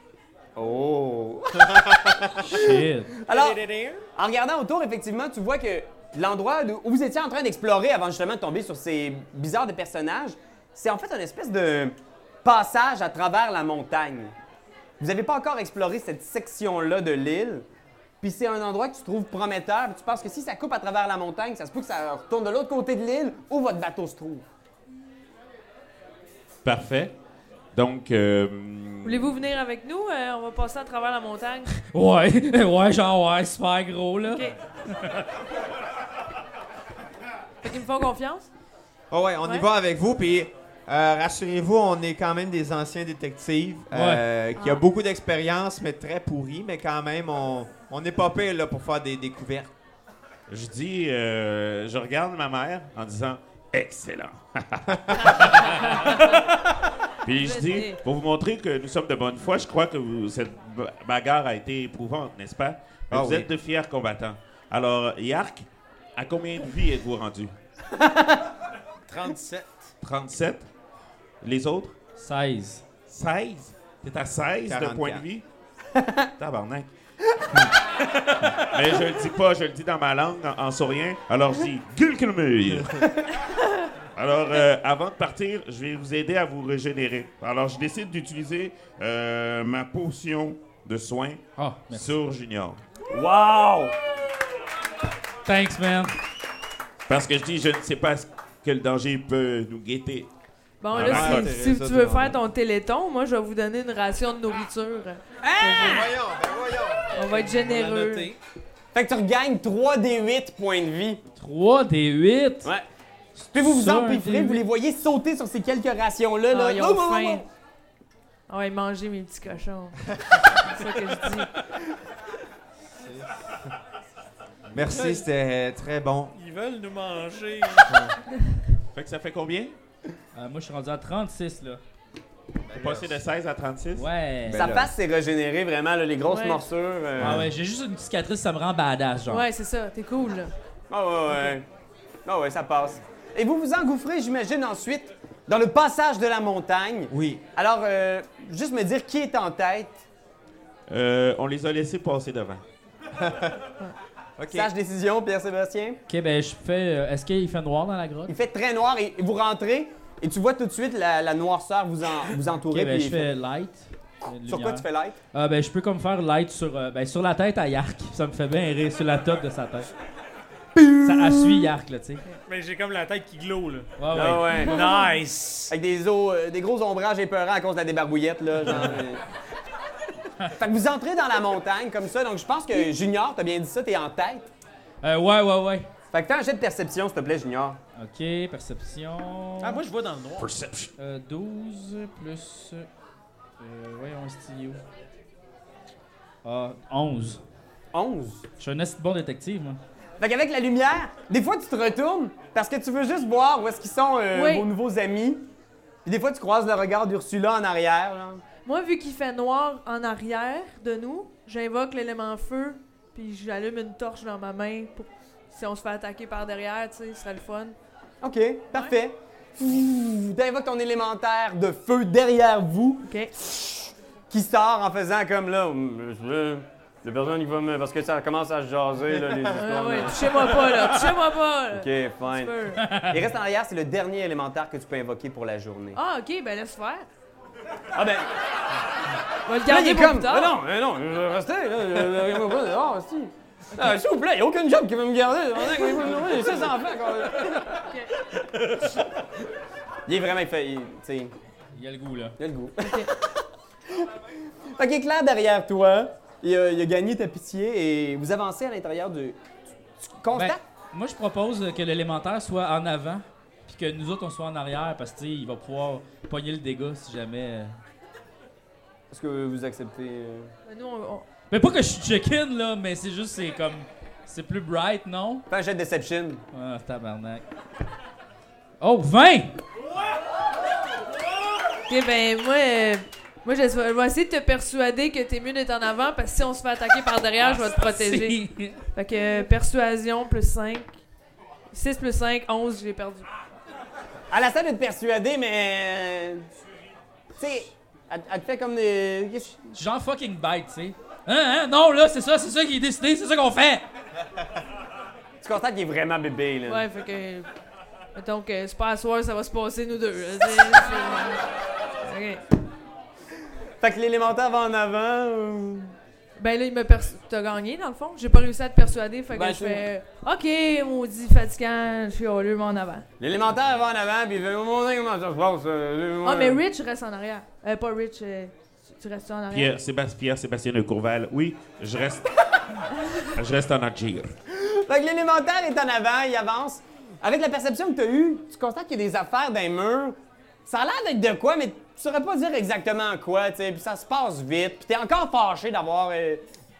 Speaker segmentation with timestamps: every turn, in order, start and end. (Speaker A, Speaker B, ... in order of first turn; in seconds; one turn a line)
Speaker A: 0.6-3.6
Speaker B: 2.4-3.1
Speaker C: 3.3-4.0
Speaker A: 4.2-14.3
Speaker A: 15.0-17.7
Speaker A: 18.2-24.4
Speaker D: 26.6-27.1
Speaker D: 27.7-29.4
Speaker E: 29.0-31.7
Speaker B: 31.9-35.2
Speaker E: 34.3-34.6
Speaker E: 37.6-38.5
Speaker F: 39.1-49.7
Speaker B: 43.9-44.2
Speaker E: 44.6-44.8
Speaker D: 50.5-56.4
Speaker E: 55.4-56.3
Speaker D: 57.2-67.5
Speaker E: 57.4-58.0
Speaker F: 63.1-63.5
Speaker A: 68.0-68.4
Speaker C: 69.1-69.9
Speaker D: 70.0-70.7
Speaker D: 71.4-72.0
Speaker B: 72.2-72.8
Speaker D: 73.1-75.4
Speaker F: 74.7-75.2
Speaker A: 76.0-76.3
Speaker D: 76.4-76.9
Speaker D: 78.5-83.1
Speaker D: 84.2-92.8
Speaker B: 91.6-92.1
Speaker A: 93.1-94.0
Speaker B: 95.5-96.2
Speaker D: 97.1-100.3
Speaker E: 100.8-106.1
Speaker D: 100.9-101.5
Speaker F: 100.9-102.4
Speaker A: 105.4-106.1
Speaker F: 105.8-107.3
Speaker E: 107.1-108.3
Speaker C: 107.3-108.4
Speaker A: 108.9-111.2
Speaker B: 111.4-112.7
Speaker B: 113.4-114.6
Speaker A: 113.5-117.5
Speaker E: 116.5-117.4
Speaker E: 118.5-121.5
Speaker F: 124.7-126.3
Speaker C: 124.9-125.2
Speaker C: 126.3-128.1
Speaker D: 128.9-129.8
Speaker B: 130.3-131.8
Speaker F: 132.6-133.2
Speaker D: 132.7-134.1
Speaker B: 134.0-134.7
Speaker F: 134.4-134.9
Speaker A: 134.5-137.5
Speaker E: 136.3-136.7
Speaker F: 137.2-137.5
Speaker B: 137.2-139.5
Speaker E: 139.3-140.5
Speaker A: 140.9-141.7
Speaker A: 142.2-150.0
Speaker F: 147.1-147.4
Speaker D: 150.9-152.6
Speaker F: 153.2-153.6
Speaker F: 154.4-154.7
Speaker A: 154.5-156.0
Speaker B: 156.1-158.3
Speaker A: 158.3-163.3
Speaker B: 162.7-169.9
Speaker A: 164.5-165.2
Speaker A: 170.8-171.7
Speaker B: 171.0-172.2
Speaker C: 172.4-173.9
Speaker B: 174.0-174.6
Speaker A: 174.1-175.0
Speaker C: 174.6-175.7
Speaker E: 174.7-175.1
Speaker A: 175.7-179.2
Speaker A: 180.5-184.5
Speaker B: 185.0-185.9
Speaker A: 186.1-187.8
Speaker B: 188.0-189.8
Speaker C: 189.6-190.5
Speaker D: 190.4-190.9
Speaker B: 191.0-192.9
Speaker B: 193.6-194.8
Speaker B: 196.4-197.4
Speaker A: 197.9-198.5
Speaker B: 198.6-199.8
Speaker A: 200.2-205.5
Speaker E: 204.3-204.7
Speaker A: 206.1-208.4
Speaker E: 208.7-217.8
Speaker A: 218.2-231.1
Speaker E: 223.0-223.3
Speaker E: 229.5-232.9
Speaker A: 231.7-236.0
Speaker B: 232.8-233.2
Speaker E: 235.9-237.1
Speaker A: 237.9-238.3
Speaker E: 239.5-240.6
Speaker A: 239.7-247.8
Speaker E: 247.8-248.1
Speaker A: 250.1-251.3
Speaker B: 251.8-252.4
Speaker A: 252.4-253.3
Speaker A: 254.8-259.4
Speaker A: 260.0-260.6
Speaker B: 260.3-267.8
Speaker A: 269.1-270.5
Speaker E: 270.7-271.3
Speaker B: 271.5-275.5
Speaker A: 275.5-276.4
Speaker B: 276.5-277.4
Speaker B: 278.8-279.6
Speaker E: 281.9-291.0
Speaker B: 287.4-288.8
Speaker E: 291.7-293.3
Speaker A: 294.3-296.5
Speaker A: 297.4-299.7
Speaker B: 299.8-303.9
Speaker A: 305.4-306.8
Speaker E: 306.7-307.5
Speaker E: 308.1-311.4
Speaker E: 312.0-312.4
Speaker A: 313.8-315.9
Speaker E: 316.4-323.1
Speaker A: 319.3-319.9
Speaker A: 323.2-326.6
Speaker E: 326.2-329.7
Speaker D: 329.5-332.3
Speaker D: 333.2-334.3
Speaker A: 334.5-346.4